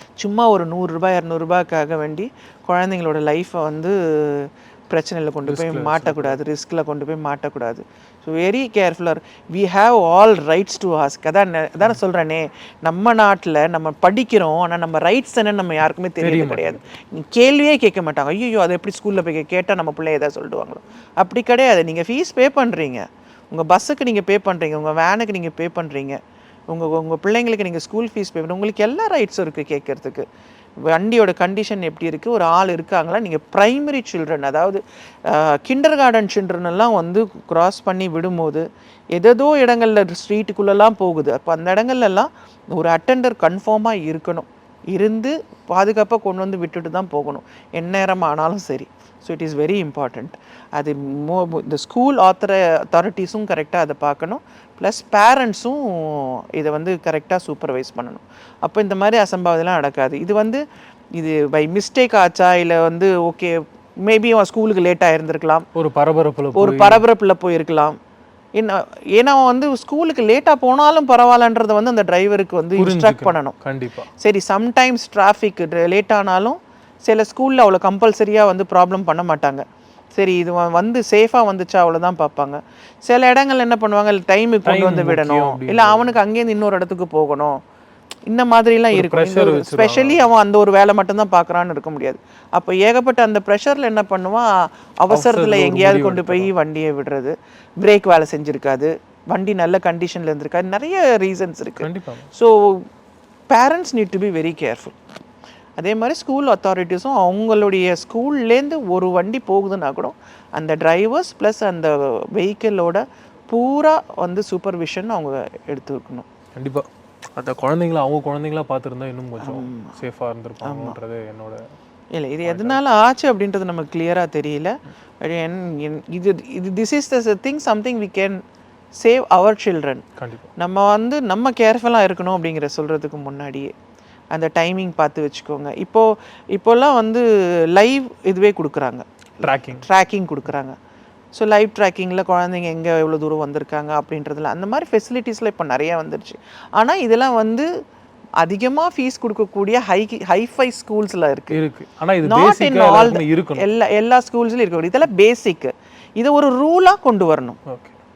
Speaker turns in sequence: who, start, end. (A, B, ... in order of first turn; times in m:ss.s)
0:00.2-0:26.2 A
0:05.5-0:06.4 B
0:16.2-0:16.8 B
0:26.7-0:30.2 A
0:30.9-1:00.6 A
1:01.2-1:05.6 A
1:05.7-1:07.0 B
1:06.6-1:08.0 A
1:08.6-1:13.6 A
1:12.8-1:14.1 B
1:14.2-1:27.6 A
1:24.6-1:26.2 B
1:28.3-1:34.5 A
1:28.9-1:30.2 B
1:35.0-1:42.8 A
1:35.1-1:36.5 B
1:41.8-1:42.3 B
1:43.5-1:45.0 A
1:45.8-1:56.3 A
1:56.6-1:56.8 B
1:57.4-2:01.7 B
1:59.4-2:00.0 A
2:00.6-2:01.0 A
2:02.1-2:08.4 A
2:02.4-2:02.8 B
2:09.0-2:10.0 A
2:10.2-2:10.5 B
2:10.6-2:13.7 A
2:14.3-2:19.0 A
2:19.4-2:19.9 B
2:19.7-2:20.7 A
2:21.3-2:27.7 A
2:28.4-2:31.6 A
2:31.5-2:33.7 B
2:32.2-2:37.6 A
2:37.7-2:38.0 B